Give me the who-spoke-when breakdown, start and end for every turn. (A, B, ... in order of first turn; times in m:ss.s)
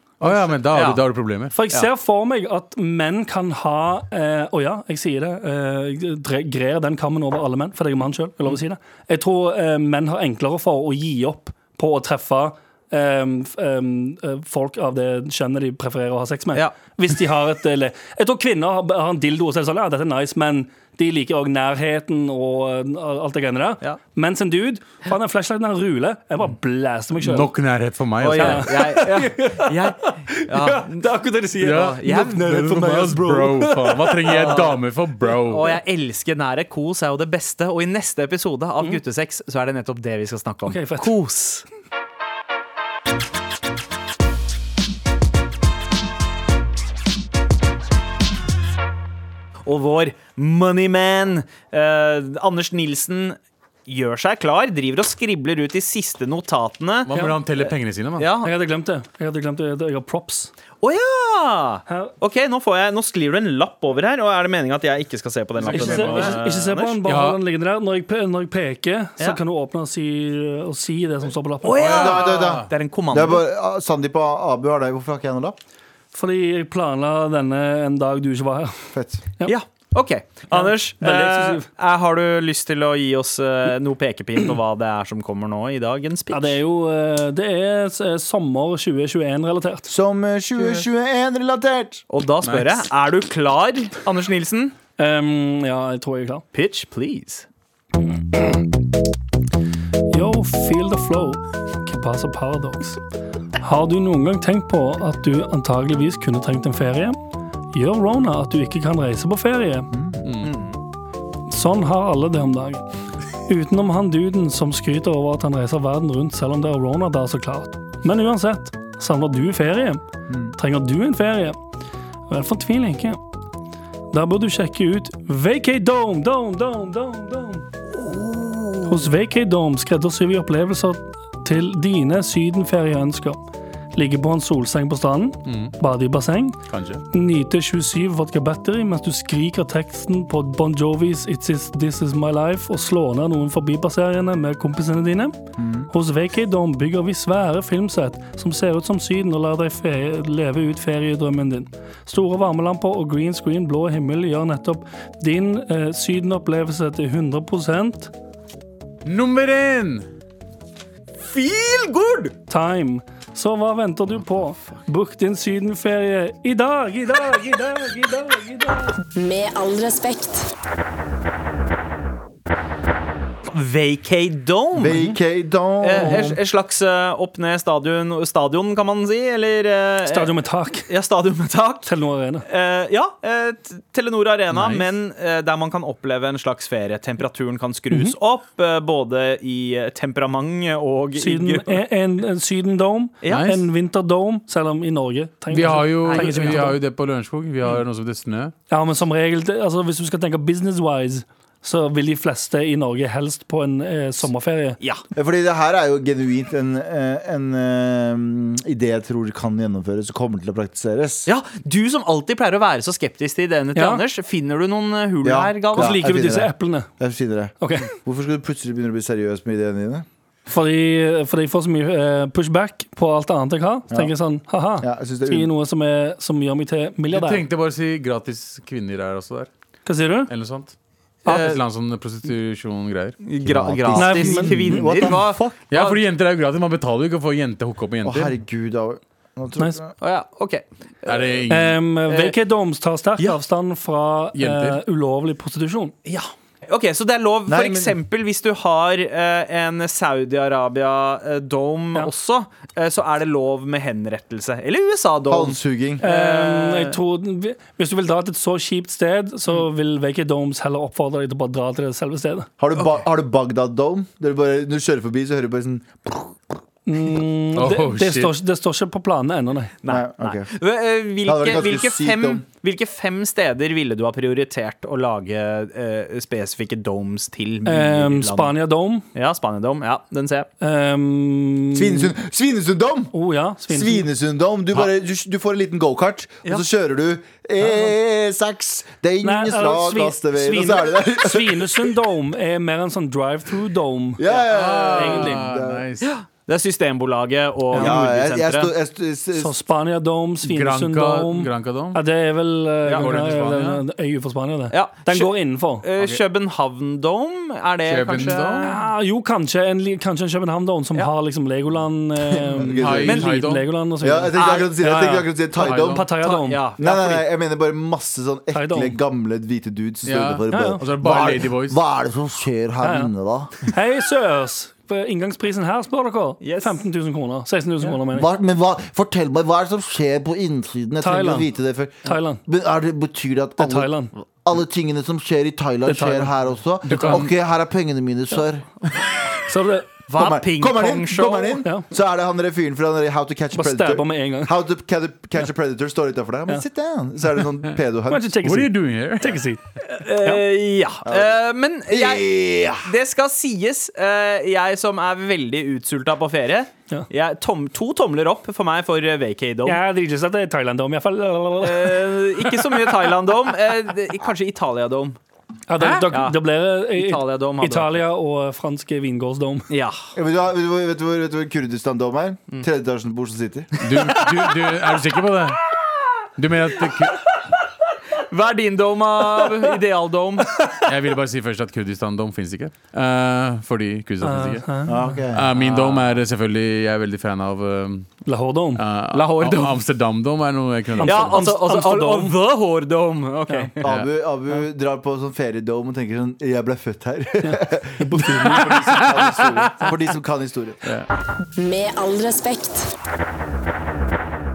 0:00.2-0:01.5 A
0:00.3-0:01.0 B
0:01.5-0:27.5 C
0:27.2-0:29.0 A
0:28.2-0:31.1 B
0:28.3-0:31.9 C
0:31.6-0:35.8 A
0:31.7-0:32.5 B
0:32.2-0:33.6 D
0:33.3-0:34.7 C
0:34.3-0:34.8 B
0:35.5-0:41.6 B
0:40.6-0:41.1 C
0:49.6-0:57.1 B
0:57.1-0:58.3 A
0:57.1-0:57.4 C
0:57.6-0:58.5 B
0:58.4-1:00.5 C
1:00.8-1:07.0 B
1:01.9-1:02.1 C
1:05.6-1:06.4 A
1:05.7-1:11.8 C
1:07.0-1:07.4 A
1:11.6-1:13.4 B
1:11.8-1:12.7 A
1:11.8-1:15.6 D
1:16.1-1:18.8 C
1:18.9-1:19.2 D
1:19.4-1:26.6 B
1:20.5-1:21.7 C
1:26.3-1:29.9 C
1:29.9-1:32.0 D
1:32.1-1:34.8 B
1:32.4-1:32.8 A
1:35.0-1:36.4 C
1:36.5-1:37.4 B
1:38.1-1:38.7 C
1:40.1-1:43.0 C
1:43.6-1:47.2 C
1:47.7-1:49.9 C
1:49.9-1:50.2 D
1:50.2-1:50.5 A
1:50.4-1:50.8 B
1:51.5-1:52.8 C
1:53.4-2:00.0 C
2:00.3-2:00.5 D
2:00.5-2:01.6 C
2:02.3-2:03.2 C
2:04.1-2:07.6 C
2:08.8-2:13.4 C
2:13.9-2:38.1 C
2:15.4-2:15.7 A
2:16.7-2:17.0 A
2:25.6-2:25.9 D
2:39.0-2:40.1 A
2:41.2-2:42.3 B
2:42.5-2:49.0 C
2:49.1-2:50.5 E
2:53.5-2:55.1 B
2:54.8-2:56.4 D
2:55.8-3:00.3 B
2:56.0-2:56.3 C
3:00.0-3:00.9 C
3:00.9-3:01.9 B
3:01.8-3:02.4 C
3:02.4-3:11.8 B
3:04.5-3:04.9 A
3:11.2-3:16.8 C
3:13.2-3:13.5 B
3:13.2-3:13.7 A
3:15.5-3:18.5 A
3:16.0-3:16.7 B
3:18.7-3:24.8 C
3:25.1-3:31.3 D
3:31.2-3:36.0 B
3:33.7-3:34.0 C
3:35.2-3:40.0 D
3:35.7-3:36.9 C
3:37.6-3:37.9 C
3:40.5-3:47.4 C
3:44.8-3:45.5 D
3:47.1-3:49.5 A
3:49.8-3:50.3 C
3:50.3-3:53.2 A
3:51.2-3:51.6 B
3:53.2-3:56.0 B
3:53.4-3:55.6 D
3:54.0-3:54.9 C
3:55.7-3:58.3 A
3:58.0-3:59.9 D
4:00.0-4:01.2 B
4:01.0-4:01.8 A
4:01.5-4:05.9 C
4:02.1-4:02.3 B
4:04.3-4:04.8 A
4:06.0-4:17.0 B
4:07.5-4:08.0 D
4:15.3-4:16.0 D
4:16.0-4:22.5 C
4:22.6-4:26.6 D
4:26.8-4:29.7 C
4:27.5-4:28.3 A
4:29.8-4:38.6 B
4:29.9-4:30.5 D
4:31.2-4:32.4 D
4:37.6-4:39.0 C
4:39.1-4:40.5 B
4:40.6-4:42.1 C
4:41.7-4:43.1 D
4:43.1-4:44.1 C
4:43.7-4:51.9 D
4:49.2-4:54.2 C
4:54.2-4:55.8 D
4:54.5-4:56.1 A
4:54.9-4:55.4 C
4:56.0-4:58.7 B
4:57.7-4:59.6 D
4:59.3-5:05.9 C
5:00.4-5:02.0 A
5:02.9-5:03.8 A
5:04.7-5:08.7 B
5:07.9-5:08.8 A
5:08.6-5:16.6 C
5:12.3-5:13.3 D
5:12.6-5:13.7 A
5:13.0-5:13.3 B
5:14.0-5:16.0 D
5:14.3-5:14.7 B
5:15.6-5:16.1 A
5:16.2-5:17.2 B
5:16.8-5:23.7 D
5:18.5-5:19.0 C
5:20.0-5:21.8 A
5:20.5-5:20.8 C
5:22.8-5:28.3 C
5:26.4-5:26.8 B
5:28.0-5:39.4 D
5:31.0-5:31.5 C
5:32.0-5:32.4 C
5:33.6-5:34.1 C
5:35.8-5:36.3 C
5:36.8-5:37.3 A
5:36.9-5:37.2 C
5:39.4-5:39.9 C
5:40.1-5:41.6 B
5:40.1-5:48.4 D
5:43.5-5:44.6 C
5:48.1-5:49.6 C
5:48.4-5:49.4 A
5:49.8-5:59.8 B
5:51.0-5:52.9 D
5:59.6-6:02.8 C
6:01.6-6:05.2 B
6:05.7-6:09.7 C
6:05.8-6:06.1 A
6:06.1-6:08.0 B
6:09.7-6:10.1 B
6:10.1-6:14.1 D
6:13.8-6:15.6 A
6:13.9-6:15.0 B
6:16.4-6:17.2 A
6:18.1-6:20.7 B
6:20.8-6:24.7 A
6:24.2-6:25.2 C
6:24.8-6:25.5 D
6:25.3-6:28.2 A
6:25.5-6:26.1 B
6:28.2-6:28.8 C
6:28.7-6:31.4 A
6:29.1-6:29.8 B
6:31.0-6:33.8 B
6:31.0-6:32.4 C
6:33.8-6:40.9 D
6:37.4-6:38.8 C
6:38.8-6:39.9 A
6:41.6-6:42.9 E